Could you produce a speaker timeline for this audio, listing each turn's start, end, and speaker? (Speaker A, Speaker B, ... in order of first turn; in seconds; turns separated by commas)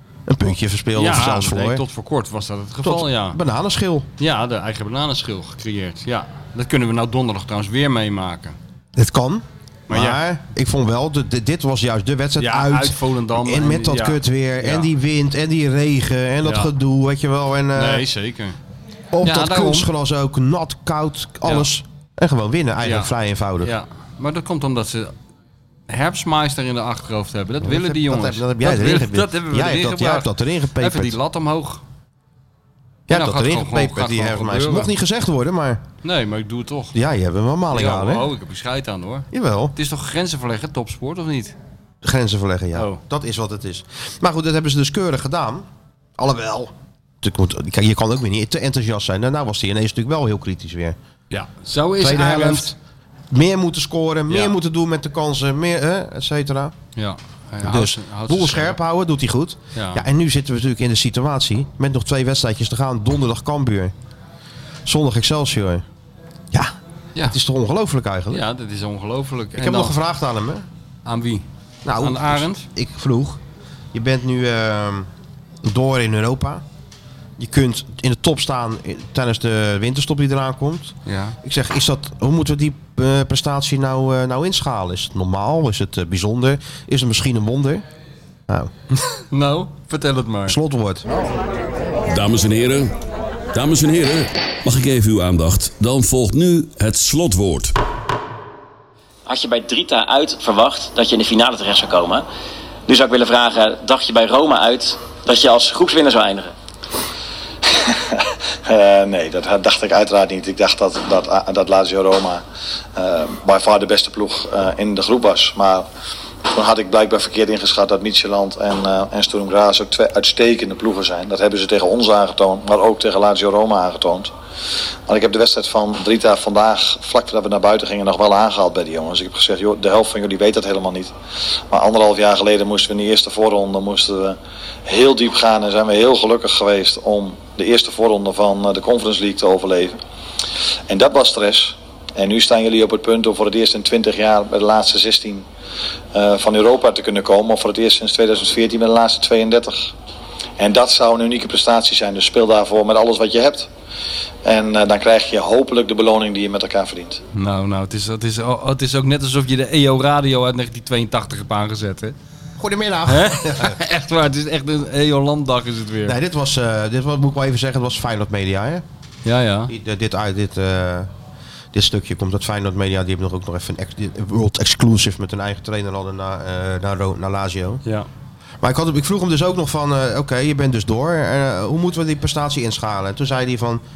Speaker A: 0.3-1.8, Speaker B: 0.9-3.4, Speaker A: 2.8-4.1, Speaker B: 4.2-8.6, Speaker A: 8.9-18.1, Speaker B: 9.9-10.2, Speaker B: 12.4-14.9, Speaker B: 16.4-16.7, Speaker B: 17.7-18.6, Speaker A: 19.1-23.7, Speaker B: 19.2-19.9, Speaker B: 22.8-25.1, Speaker B: 25.9-31.8, Speaker A: 27.6-31.2, Speaker A: 33.1-35.8, Speaker B: 33.1-34.9, Speaker B: 36.0-36.9, Speaker A: 36.9-38.3, Speaker B: 37.7-41.5, Speaker A: 39.3-39.7, Speaker A: 42.0-45.6, Speaker B: 42.7-43.0, Speaker A: 46.2-51.0, Speaker B: 51.3-52.7, Speaker A: 52.0-52.8, Speaker A: 53.3-56.7, Speaker B: 57.0-58.8, Speaker A: 57.6-63.9, Speaker B: 59.7-60.0, Speaker A: 64.8-65.8, Speaker A: 66.5-68.4, Speaker B: 68.3-70.0, Speaker A: 69.5-70.7, Speaker B: 71.0-71.5, Speaker A: 71.8-73.4, Speaker B: 72.0-72.7, Speaker A: 73.9-75.1, Speaker A: 75.6-76.6, Speaker A: 77.4-87.8, Speaker B: 81.0-81.3, Speaker A: 88.5-88.7, Speaker B: 89.3-90.6, Speaker A: 90.5-91.1, Speaker C: 92.1-92.9, Speaker C: 93.5-97.7, Speaker D: 99.2-102.2, Speaker D: 102.9-106.5, Speaker E: 107.7-112.4, Speaker E: 112.9-115.9, Speaker E: 116.5-124.3, Speaker E: 125.1-131.1, Speaker E: 131.7-139.9, Speaker E: 140.9-145.4, Speaker E: 146.1-149.9, Speaker E: 150.6-153.7, Speaker E: 154.4-157.2, Speaker B: 157.3-162.1, Speaker A: 162.6-163.8, Speaker B: 163.1-166.1, Speaker A: 166.0-168.8, Speaker B: 169.2-169.7, Speaker A: 169.7-171.1, Speaker A: 171.7-177.8, Speaker A: 178.6-183.8